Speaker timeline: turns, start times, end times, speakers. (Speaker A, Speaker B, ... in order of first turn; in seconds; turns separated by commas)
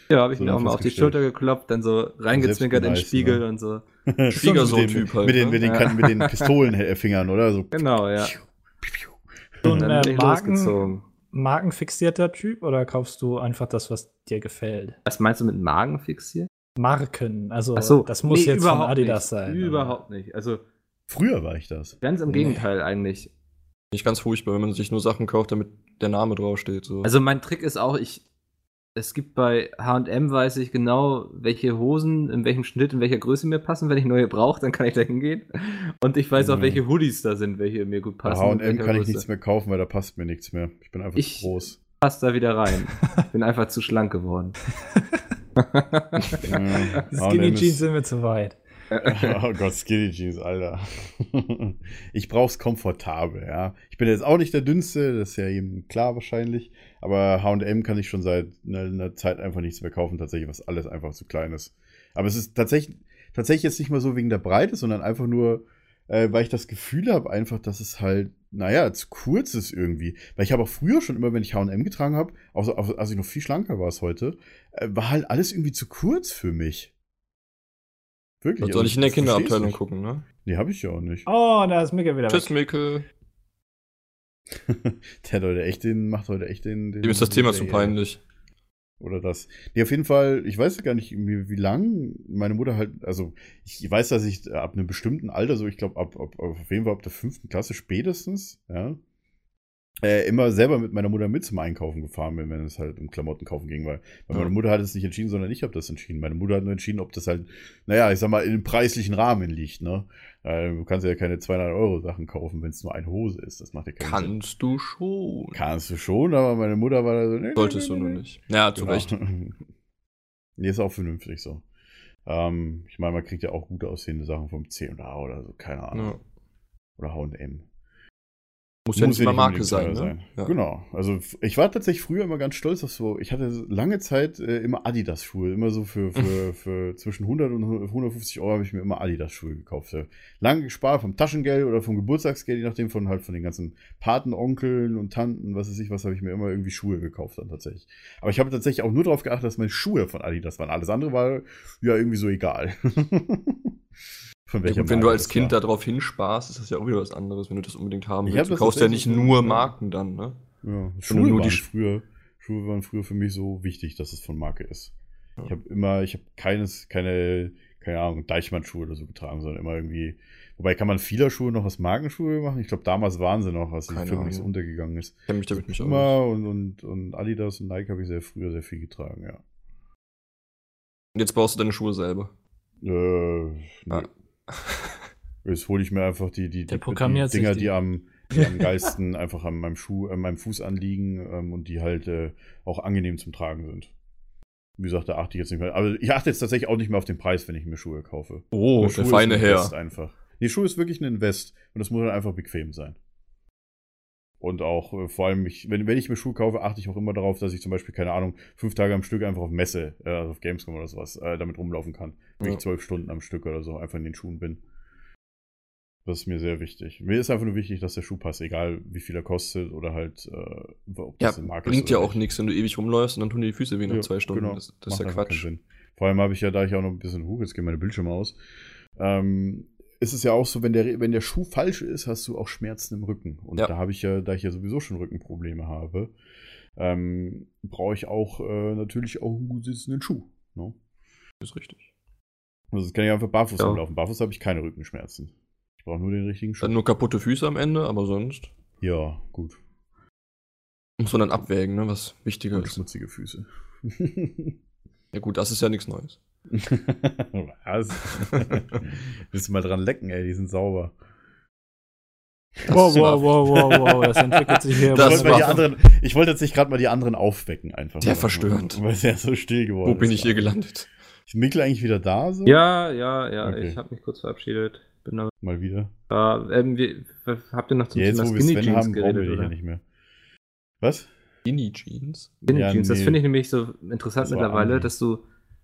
Speaker A: 0.1-3.8, Speaker B: 0.3-1.2, Speaker B: 2.3-3.4, Speaker B: 4.1-9.8, Speaker C: 4.3-5.6, Speaker A: 5.6-6.5, Speaker A: 7.7-8.3, Speaker D: 9.6-10.8, Speaker A: 9.7-11.0, Speaker D: 11.3-14.9, Speaker A: 15.1-16.5, Speaker D: 16.8-19.9, Speaker A: 17.8-20.6, Speaker B: 21.1-22.6, Speaker A: 22.0-23.3, Speaker C: 23.9-27.1, Speaker A: 27.0-28.2, Speaker A: 28.9-39.2, Speaker B: 36.4-36.8, Speaker B: 38.2-41.8, Speaker A: 41.1-44.6, Speaker A: 45.6-46.9, Speaker B: 46.4-47.8, Speaker D: 47.1-48.5, Speaker A: 48.9-49.4, Speaker B: 49.0-76.9, Speaker B: 78.4-79.8, Speaker C: 78.6-80.2, Speaker B: 80.4-81.3, Speaker D: 81.3-82.5, Speaker C: 82.3-83.0, Speaker B: 84.5-88.0, Speaker C: 87.0-88.2, Speaker B: 89.0-99.0, Speaker B: 100.0-114.3, Speaker C: 114.0-115.6, Speaker B: 115.5-118.2, Speaker C: 117.5-119.1, Speaker B: 118.7-119.5, Speaker B: 120.6-121.6, Speaker B: 122.3-126.1, Speaker C: 125.9-126.2, Speaker B: 127.0-127.6, Speaker C: 128.9-130.5, Speaker B: 128.9-153.7, Speaker B: 154.5-155.6, Speaker C: 154.6-160.4, Speaker B: 158.2-159.7, Speaker B: 160.6-164.9, Speaker C: 161.1-161.6, Speaker B: 165.4-179.4, Speaker C: 173.9-174.5, Speaker C: 175.3-176.2, Speaker C: 181.1-182.3, Speaker B: 182.8-184.1, Speaker C: 183.9-184.9, Speaker B: 185.4-193.9, Speaker D: 186.7-187.7, Speaker D: 188.3-188.8, Speaker B: 194.8-202.9, Speaker C: 198.5-199.7, Speaker B: 204.4-214.6, Speaker B: 216.1-222.2, Speaker C: 221.2-225.4, Speaker B: 223.9-228.4, Speaker B: 229.0-236.1, Speaker B: 236.8-240.8, Speaker C: 241.4-241.9, Speaker B: 242.7-246.7, Speaker C: 246.6-248.5, Speaker B: 248.8-249.6, Speaker C: 251.0-252.8, Speaker B: 252.5-254.6, Speaker C: 255.1-256.2, Speaker B: 256.5-260.9, Speaker C: 258.1-258.6, Speaker C: 262.6-265.6, Speaker D: 262.7-265.6, Speaker B: 264.9-270.5, Speaker C: 268.0-268.8, Speaker C: 269.8-270.9, Speaker B: 271.3-272.6, Speaker A: 272.4-275.3, Speaker B: 273.4-273.8, Speaker B: 275.4-275.9, Speaker A: 276.1-279.5, Speaker B: 277.9-279.8, Speaker B: 280.8-281.1, Speaker C: 281.4-282.3, Speaker B: 282.4-283.2, Speaker A: 282.5-285.2, Speaker B: 284.2-284.9